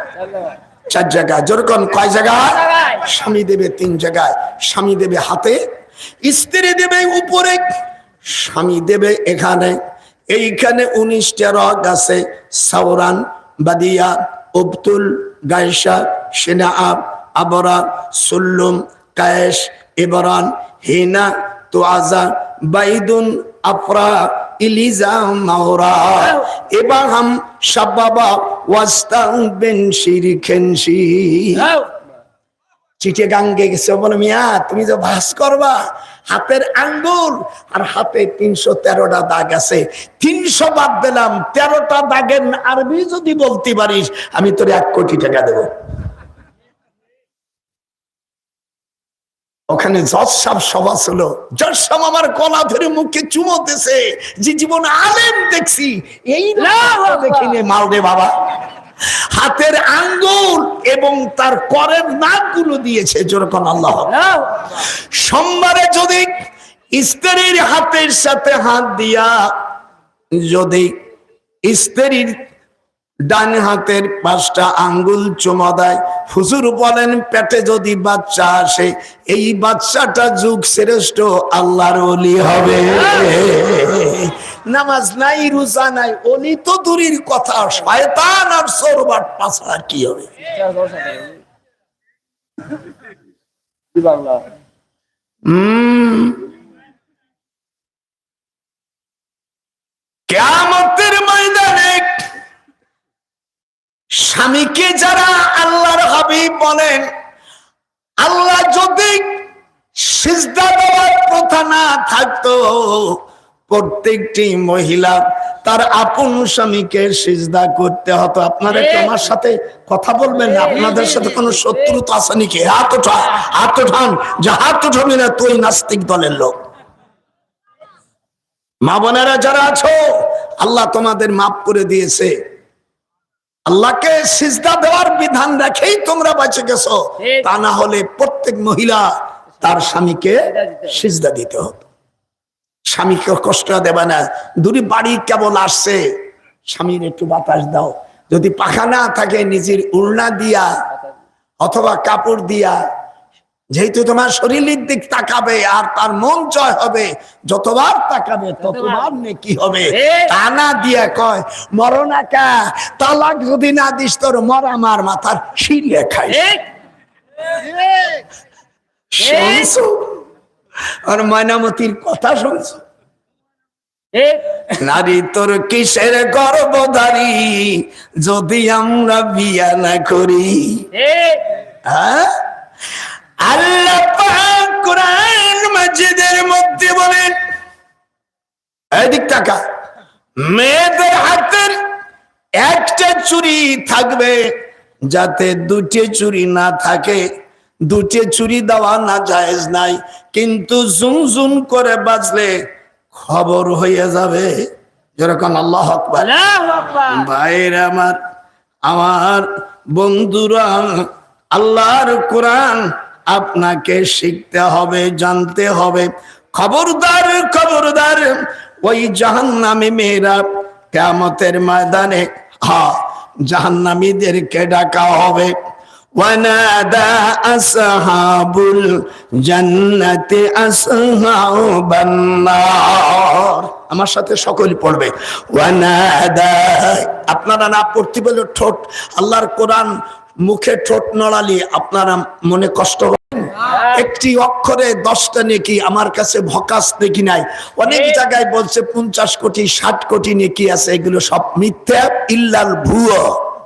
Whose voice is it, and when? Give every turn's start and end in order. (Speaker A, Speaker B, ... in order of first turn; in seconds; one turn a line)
Speaker A: 0.3-0.5
Speaker B: 0.9-5.6
Speaker B: 6.2-7.6
Speaker B: 8.2-9.8
Speaker B: 10.3-31.7
Speaker A: 31.6-31.9
Speaker B: 33.0-45.7
Speaker B: 49.7-58.4
Speaker A: 56.6-57.6
Speaker B: 59.3-64.2
Speaker A: 64.1-64.7
Speaker B: 64.9-66.3
Speaker B: 66.9-69.5
Speaker B: 70.3-70.9
Speaker B: 71.7-72.5
Speaker B: 73.3-90.3
Speaker A: 90.5-91.4
Speaker A: 94.0-94.5
Speaker B: 95.5-96.5
Speaker B: 100.3-102.2
Speaker B: 104.2-107.1
Speaker B: 108.2-126.6
Speaker A: 118.7-119.2
Speaker A: 120.3-122.0
Speaker B: 128.8-132.4
Speaker B: 133.7-141.9
Speaker A: 140.5-140.9
Speaker B: 142.9-146.2
Speaker B: 146.7-150.8
Speaker B: 151.6-152.8
Speaker B: 153.7-166.5
Speaker A: 159.9-160.3
Speaker A: 166.3-166.7
Speaker A: 167.6-168.2
Speaker B: 169.1-170.2
Speaker A: 169.2-169.7
Speaker B: 171.1-172.8
Speaker A: 174.1-174.5
Speaker B: 174.8-180.9
Speaker A: 180.9-181.5
Speaker B: 181.8-182.3
Speaker B: 183.4-187.4
Speaker B: 188.9-189.6
Speaker B: 190.4-191.8
Speaker B: 192.6-194.5
Speaker B: 195.1-197.2
Speaker B: 197.9-202.6
Speaker B: 203.1-206.3
Speaker A: 206.2-207.3
Speaker B: 207.1-208.2
Speaker B: 208.9-225.5
Speaker B: 226.2-253.4
Speaker A: 243.7-244.0
Speaker A: 247.9-248.2